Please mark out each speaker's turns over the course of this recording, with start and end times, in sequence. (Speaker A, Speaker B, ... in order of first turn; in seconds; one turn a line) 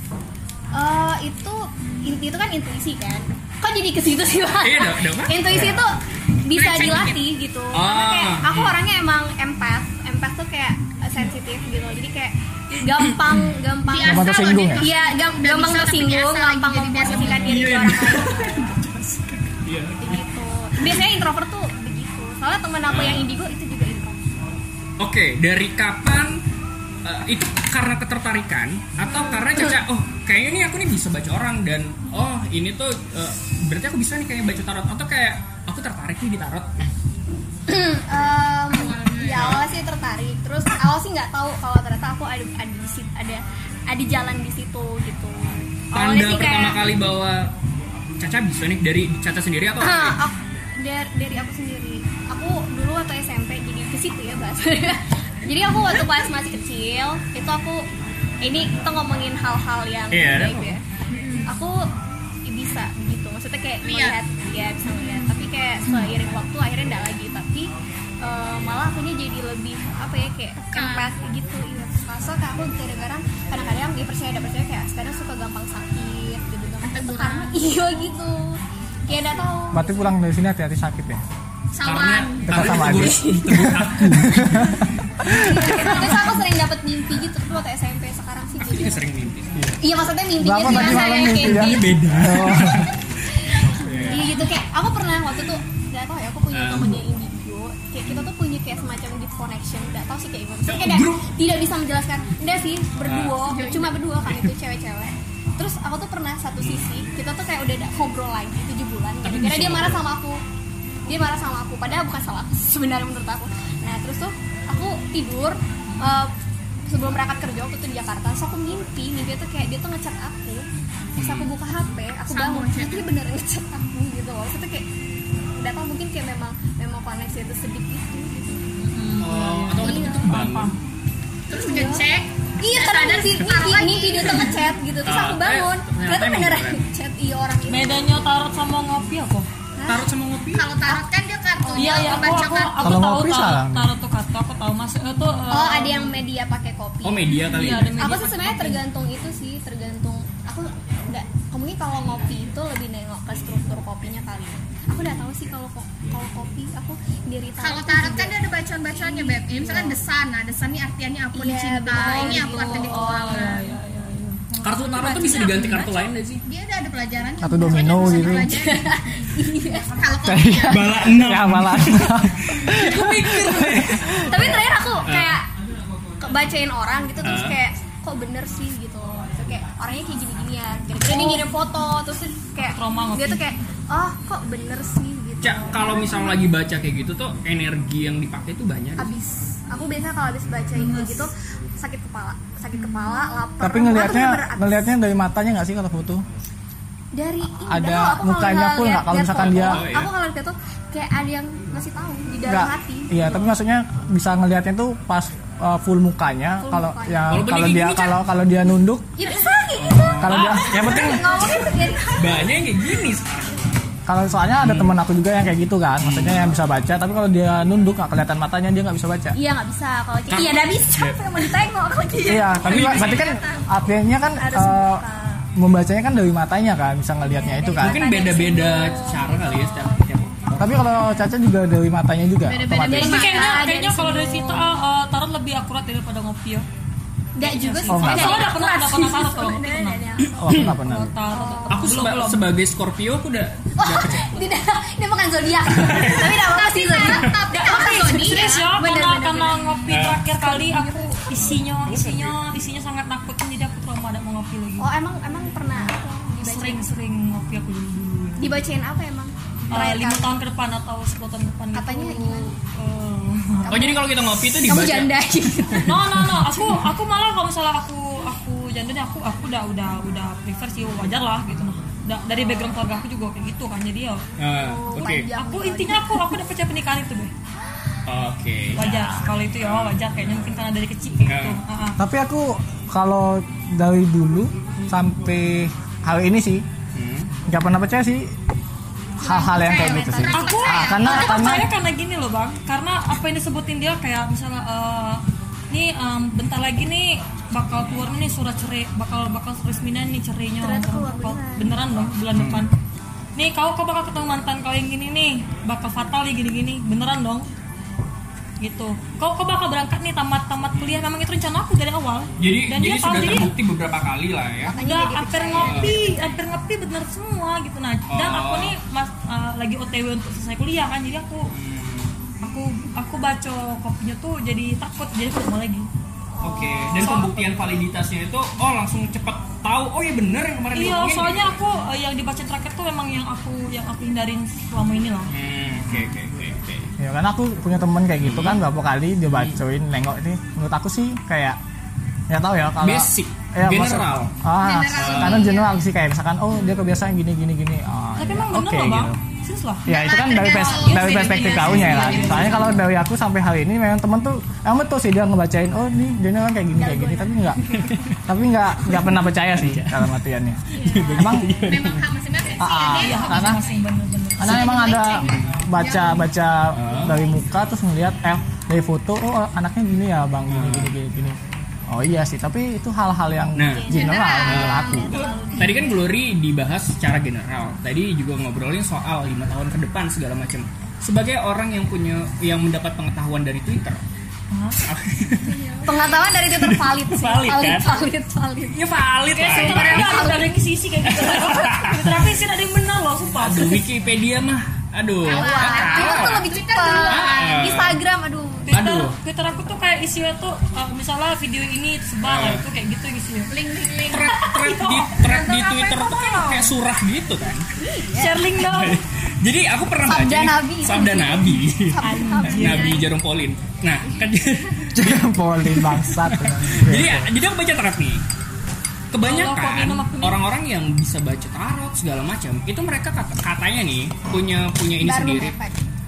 Speaker A: 0.7-18.7
Speaker B: 4.6-5.7
Speaker C: 5.5-5.8
Speaker D: 6.5-7.2
Speaker B: 7.7-8.8
Speaker D: 13.9-17.6
Speaker C: 14.0-14.8
Speaker B: 17.1-20.2
Speaker A: 20.0-24.3
Speaker B: 22.9-23.3
Speaker B: 25.0-26.4
Speaker B: 27.0-36.9
Speaker A: 29.1-29.7
Speaker A: 37.7-46.8
Speaker D: 38.7-39.5
Speaker B: 39.4-39.6
Speaker B: 45.9-47.5
Speaker B: 48.2-50.2
Speaker A: 49.8-57.9
Speaker A: 58.4-60.8
Speaker B: 60.1-60.8
Speaker A: 61.5-61.9
Speaker A: 62.5-67.7
Speaker D: 63.8-64.2
Speaker A: 68.2-80.1
Speaker D: 70.7-71.1
Speaker D: 76.9-77.6
Speaker C: 79.7-81.2
Speaker D: 81.7-82.5
Speaker B: 81.8-84.9
Speaker C: 82.5-86.1
Speaker A: 82.6-83.8
Speaker A: 85.3-89.0
Speaker B: 85.9-86.2
Speaker B: 88.6-89.5
Speaker A: 89.8-92.0
Speaker C: 90.4-92.9
Speaker B: 90.6-93.0
Speaker A: 93.4-110.4
Speaker B: 93.6-94.4
Speaker B: 96.5-97.0
Speaker B: 100.7-101.3
Speaker B: 103.0-103.4
Speaker D: 103.4-104.0
Speaker B: 104.2-104.5
Speaker B: 106.6-106.9
Speaker B: 109.2-110.1
Speaker A: 111.0-116.3
Speaker A: 116.9-124.8
Speaker B: 121.2-121.5
Speaker D: 122.3-123.1
Speaker A: 125.5-128.7
Speaker E: 128.9-130.8
Speaker B: 129.2-130.7
Speaker A: 129.8-130.4
Speaker D: 131.5-134.5
Speaker A: 131.5-132.1
Speaker A: 132.6-138.2
Speaker B: 134.2-136.8
Speaker E: 137.7-139.5
Speaker A: 139.8-140.1
Speaker B: 139.9-140.7
Speaker D: 140.5-143.0
Speaker A: 141.6-142.4
Speaker E: 141.8-146.1
Speaker C: 142.8-143.9
Speaker A: 145.5-147.4
Speaker B: 147.0-148.2
Speaker E: 147.5-148.8
Speaker A: 148.0-158.3
Speaker D: 157.6-163.6
Speaker A: 159.0-160.0
Speaker A: 161.3-163.5
Speaker E: 162.0-165.8
Speaker B: 164.6-166.4
Speaker A: 165.1-165.4
Speaker D: 165.2-165.8
Speaker D: 166.4-168.8
Speaker C: 167.4-168.7
Speaker A: 167.6-170.0
Speaker D: 169.9-170.9
Speaker C: 170.2-174.6
Speaker B: 170.7-175.4
Speaker A: 173.2-175.5
Speaker A: 176.2-186.5
Speaker B: 177.2-177.6
Speaker E: 181.1-181.5
Speaker E: 182.7-183.4
Speaker B: 185.4-189.1
Speaker A: 189.0-194.9
Speaker C: 193.6-196.2
Speaker A: 197.1-203.5
Speaker C: 197.6-199.8
Speaker B: 199.3-200.1
Speaker C: 202.4-209.2
Speaker A: 206.6-207.4
Speaker B: 207.3-208.2
Speaker A: 209.2-212.6
Speaker B: 209.8-211.6
Speaker C: 210.2-211.3
Speaker B: 212.2-213.7
Speaker C: 214.1-219.3
Speaker B: 214.6-214.9
Speaker B: 216.0-216.5
Speaker A: 219.3-223.6
Speaker B: 220.3-221.2
Speaker C: 222.2-225.0
Speaker B: 222.6-223.3
Speaker A: 224.4-225.4
Speaker C: 225.6-228.0
Speaker A: 227.2-230.0
Speaker B: 227.8-230.8
Speaker C: 230.6-233.3
Speaker D: 232.5-233.7
Speaker A: 232.8-234.7
Speaker E: 232.9-236.7
Speaker A: 237.3-240.6
Speaker E: 237.4-240.0
Speaker C: 237.9-238.5
Speaker C: 240.4-241.1
Speaker E: 240.6-242.5
Speaker A: 241.3-241.9
Speaker B: 241.7-244.4
Speaker A: 243.8-251.4
Speaker B: 245.7-246.5
Speaker D: 246.4-248.7
Speaker E: 247.5-254.9
Speaker B: 249.9-250.2
Speaker B: 251.8-252.4
Speaker A: 254.8-256.9
Speaker E: 256.4-258.5
Speaker A: 258.4-260.3
Speaker E: 259.7-263.7
Speaker A: 261.7-262.5
Speaker A: 263.6-266.0
Speaker B: 263.7-265.9
Speaker E: 265.8-274.2
Speaker B: 274.4-275.3
Speaker A: 274.6-276.3
Speaker E: 275.3-277.3
Speaker B: 278.1-280.0
Speaker E: 278.8-282.0
Speaker B: 281.2-281.6
Speaker C: 282.0-286.6
Speaker B: 286.9-287.3
Speaker C: 287.5-288.3
Speaker A: 289.2-290.8
Speaker C: 289.2-291.7
Speaker D: 289.5-291.6
Speaker E: 290.3-302.7
Speaker A: 300.6-301.7
Speaker B: 302.3-302.6
Speaker E: 303.4-307.5
Speaker E: 308.6-313.5
Speaker B: 310.8-311.0
Speaker B: 312.4-314.8
Speaker A: 314.7-316.4
Speaker E: 314.8-321.5
Speaker B: 315.6-316.0
Speaker B: 318.1-318.7
Speaker B: 321.5-322.1
Speaker E: 322.4-325.9
Speaker A: 326.3-327.4
Speaker B: 326.4-331.6
Speaker E: 327.0-327.3
Speaker E: 330.7-335.3
Speaker B: 335.3-336.9
Speaker C: 337.0-341.6
Speaker B: 338.2-338.6
Speaker C: 342.3-349.2
Speaker B: 342.8-344.3
Speaker D: 344.6-345.8
Speaker B: 344.9-345.5
Speaker A: 346.6-346.9
Speaker E: 348.2-352.8
Speaker C: 349.9-357.7
Speaker D: 349.9-352.2
Speaker B: 351.5-352.6
Speaker A: 356.8-358.1
Speaker B: 357.7-358.2
Speaker C: 358.2-361.5
Speaker B: 358.9-360.1
Speaker A: 360.7-361.6
Speaker B: 360.8-362.1
Speaker D: 361.6-363.8
Speaker C: 362.6-363.6
Speaker E: 363.0-364.8
Speaker C: 364.4-371.4
Speaker D: 364.4-366.3
Speaker B: 365.3-365.6
Speaker B: 366.7-367.2
Speaker A: 366.9-367.4
Speaker B: 370.5-370.9
Speaker C: 371.9-375.2
Speaker B: 373.6-373.9
Speaker A: 373.7-376.1
Speaker D: 373.9-375.2
Speaker B: 374.4-384.0
Speaker E: 384.5-384.8
Speaker B: 384.8-385.6
Speaker D: 385.5-386.1
Speaker A: 385.8-388.8
Speaker B: 386.3-387.9
Speaker B: 388.7-390.4
Speaker E: 389.3-393.8
Speaker A: 389.4-390.5
Speaker B: 391.0-392.2
Speaker B: 393.4-396.5
Speaker D: 395.2-397.7
Speaker A: 395.2-398.7
Speaker B: 397.1-398.0
Speaker E: 398.6-403.5
Speaker B: 398.7-399.2
Speaker B: 402.2-402.6
Speaker D: 403.5-404.3
Speaker B: 404.1-407.6
Speaker E: 404.3-406.7
Speaker A: 407.8-408.4
Speaker E: 408.1-409.0
Speaker B: 408.6-418.2
Speaker A: 410.0-413.1
Speaker E: 412.0-412.9
Speaker C: 414.9-417.3
Speaker B: 419.1-425.5
Speaker E: 419.2-420.4
Speaker A: 425.0-425.8